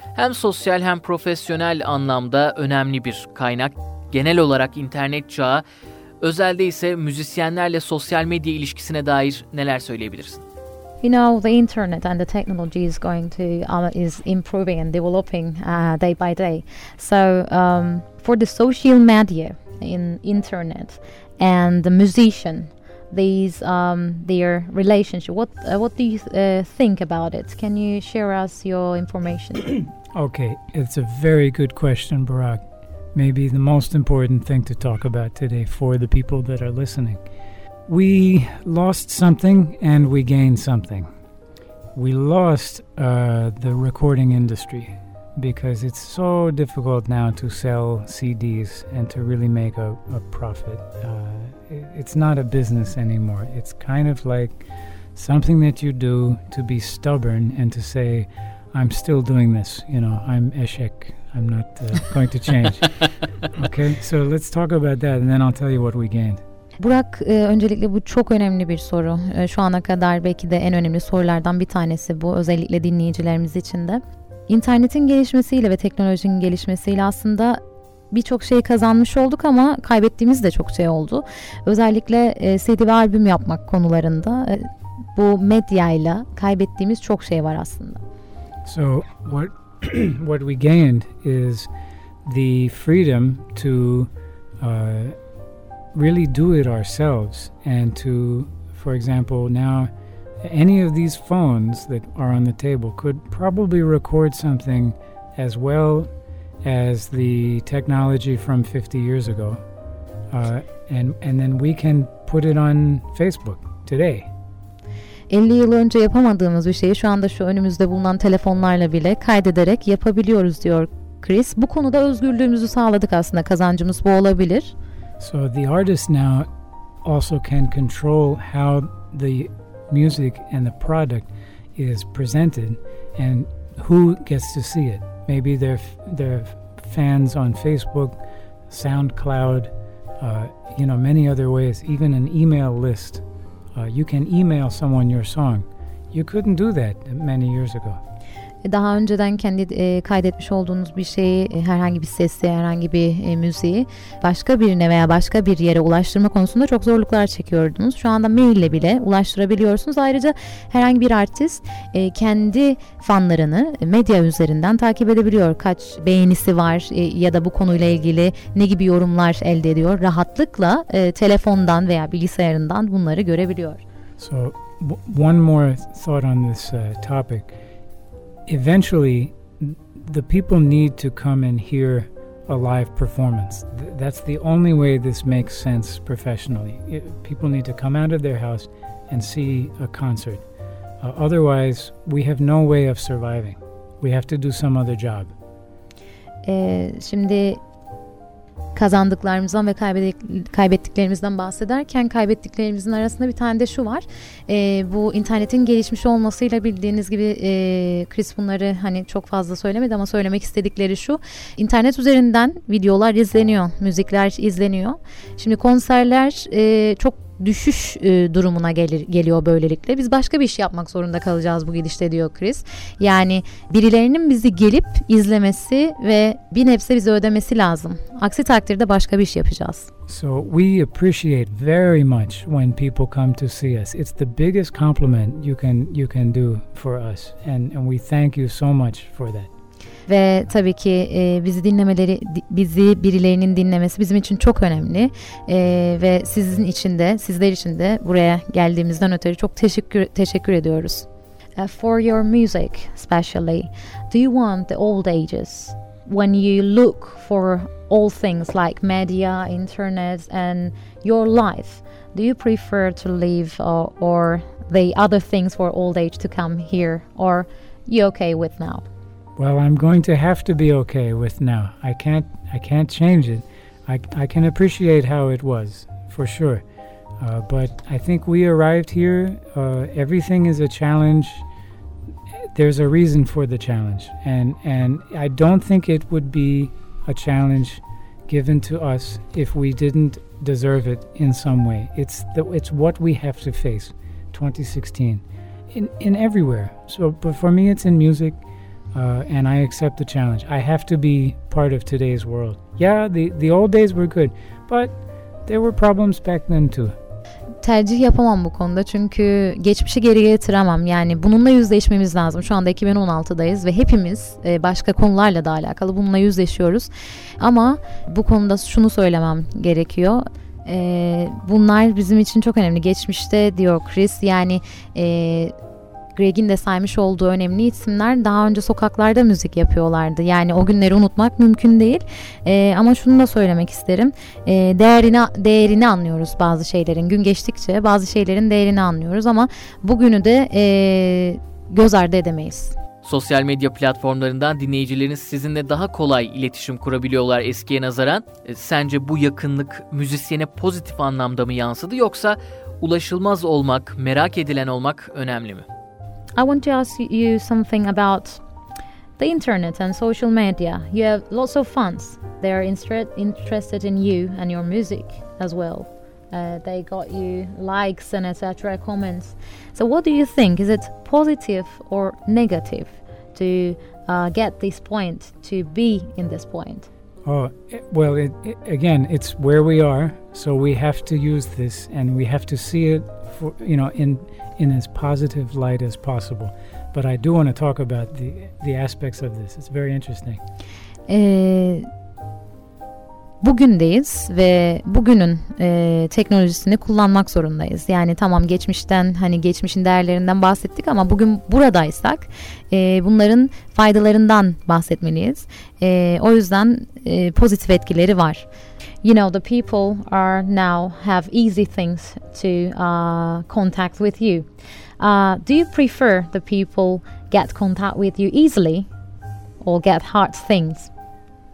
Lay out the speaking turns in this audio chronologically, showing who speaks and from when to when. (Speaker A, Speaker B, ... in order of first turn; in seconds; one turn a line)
Speaker A: 0.1-5.6
Speaker A: 6.2-10.4
Speaker B: 11.0-29.8
Speaker C: 30.1-32.6
Speaker C: 33.1-37.2
Speaker C: 37.9-41.1
Speaker C: 41.9-54.6
Speaker C: 55.1-66.4
Speaker B: 66.8-88.0
Speaker C: 88.6-91.7
Speaker C: 92.2-95.2
Speaker C: 95.9-99.9
Speaker C: 100.4-106.1
Speaker C: 106.6-109.6
Speaker C: 110.3-114.3
Speaker B: 115.3-124.7
Speaker C: 125.2-126.5
Speaker C: 127.0-143.2
Speaker C: 143.7-148.0
Speaker B: 148.6-173.8
Speaker C: 174.2-177.6
Speaker C: 178.5-190.4
Speaker C: 191.0-195.3
Speaker B: 196.4-197.6
Speaker B: 198.7-229.9
Speaker C: 230.1-239.5
Speaker B: 240.1-251.1
Speaker B: 251.6-268.9
Speaker C: 269.4-276.6
Speaker C: 277.2-281.4
Speaker C: 282.5-298.4
Speaker C: 298.9-304.9
Speaker C: 305.4-306.9
Speaker B: 307.6-325.5
Speaker B: 326.1-342.7
Speaker A: 343.0-355.6
Speaker B: 356.4-358.4
Speaker B: 359.2-376.9
Speaker C: 377.2-390.4
Speaker B: 391.1-391.9
Speaker B: 393.4-408.5
Speaker B: 409.0-414.5
Speaker B: 415.0-418.9
Speaker B: 419.6-420.9